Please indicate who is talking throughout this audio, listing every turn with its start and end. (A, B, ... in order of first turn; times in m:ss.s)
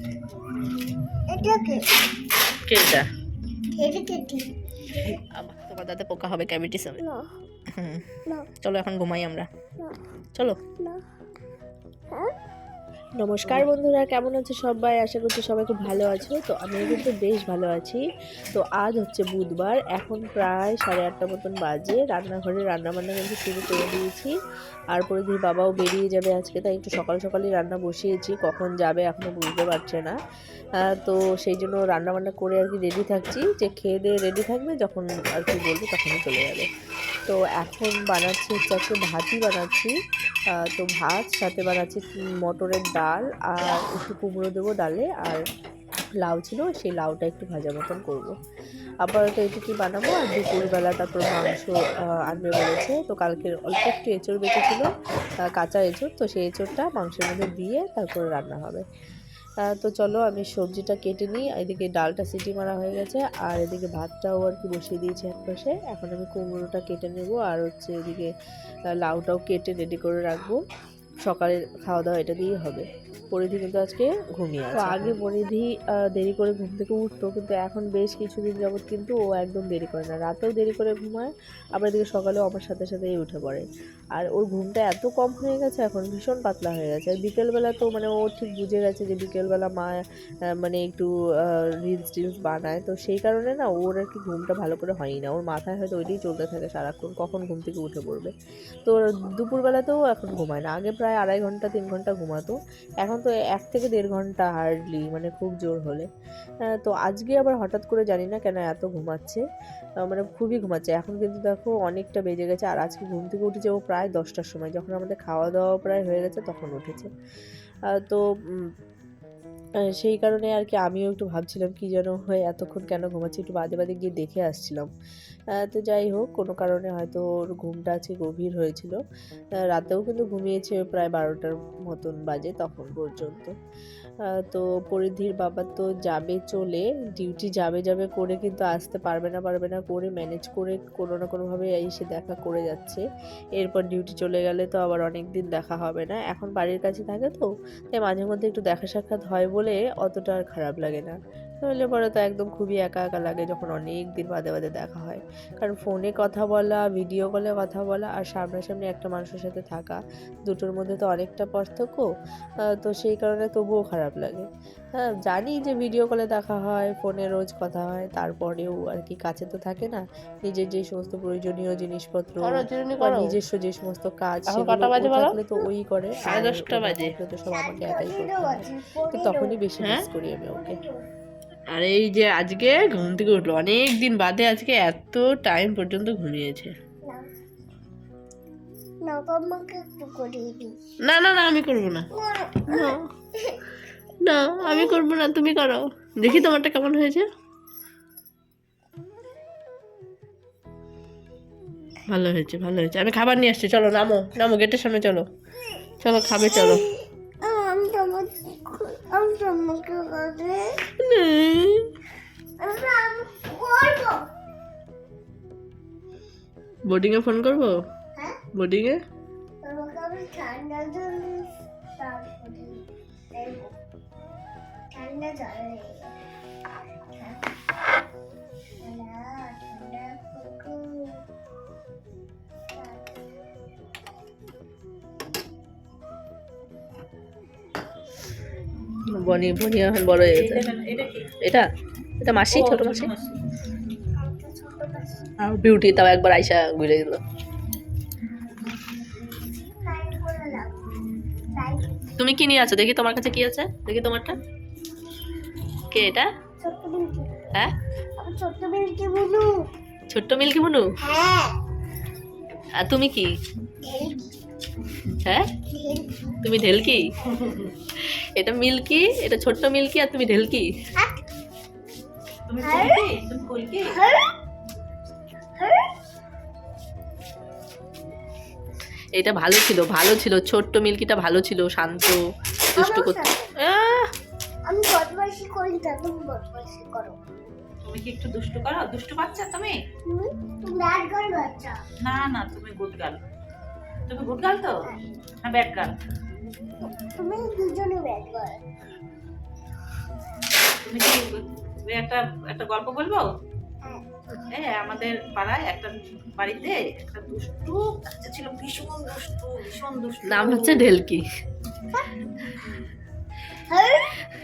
0:01.3-0:01.8 A
0:02.7-0:03.1 B
0:03.8-0:04.5 A
0:05.4-0:07.0 B
0:07.0-0:07.3 A
0:07.8-0:08.0 B
0:08.6-0:09.5 B
0:13.2-0:18.0 C
0:18.5-0:24.3 C
0:24.9-0:30.2 C
0:30.8-0:36.7 C
0:37.3-0:39.9 C
0:40.6-0:45.4 C
0:46.2-0:48.3 C
0:49.0-0:54.9 C
0:55.4-0:58.8 C
0:59.6-1:08.3 C
1:09.0-1:10.6 C
1:11.3-1:30.0 C
1:14.7-1:15.2 B
1:30.6-1:31.1 C
1:31.8-1:38.3 C
1:38.9-1:46.0 C
1:46.8-1:49.4 C
1:50.1-1:57.1 C
1:57.9-1:58.2 C
2:00.0-2:04.9 C
2:05.6-2:09.0 C
2:09.7-2:13.5 C
2:14.3-2:23.0 C
2:23.6-2:42.1 C
2:42.8-3:00.8 C
2:52.4-2:53.3 B
2:54.5-2:55.4 B
2:56.2-2:57.1 B
2:57.5-2:59.6 A
3:00.5-3:01.0 A
3:01.7-3:06.7 B
3:07.0-3:07.3 A
3:09.0-3:10.8 A
3:11.0-3:12.1 B
3:12.1-3:13.6 A
3:12.7-3:13.0 B
3:14.2-3:17.3 B
3:14.6-3:15.0 A
3:22.1-3:25.3 B
3:26.0-3:26.8 B
3:26.4-3:30.8 A
3:31.0-3:31.9 B
3:32.6-3:34.3 A
3:36.8-3:37.8 B
3:38.5-3:39.0 B
3:39.6-3:43.7 A
3:44.9-3:46.1 A
3:47.1-3:47.5 A
3:48.8-3:51.2 A
3:52.8-3:53.1 A
3:59.1-4:00.6 B
4:00.2-4:01.4 D
4:01.4-4:01.7 B
4:02.2-4:03.1 B
4:02.5-4:03.4 D
4:04.1-4:05.4 A
4:05.4-4:07.2 B
4:09.8-4:10.8 A
4:11.5-4:12.2 A
4:12.2-4:14.4 B
4:15.9-4:16.3 B
4:16.6-4:17.6 A
4:18.2-4:19.7 A
4:20.1-4:20.8 B
4:21.0-4:21.6 A
4:22.8-4:23.3 B
4:23.8-4:24.4 A
4:25.7-4:26.4 A
4:26.4-4:30.7 B
4:32.5-4:34.0 D
4:32.6-4:33.0 A
4:33.9-4:34.3 A
4:35.6-4:35.9 A
4:39.2-4:42.2 B
4:42.7-4:43.5 A
4:42.8-4:44.1 B
4:44.7-4:47.2 A
4:47.8-4:49.8 D
4:50.1-4:51.8 A
4:52.0-4:53.2 D
4:54.1-4:54.7 D
4:55.4-4:56.0 D
4:57.0-4:58.6 A
5:00.8-5:03.3 D
5:03.8-5:04.4 A
5:04.5-5:10.9 D
5:10.2-5:11.2 B
5:13.7-5:14.2 A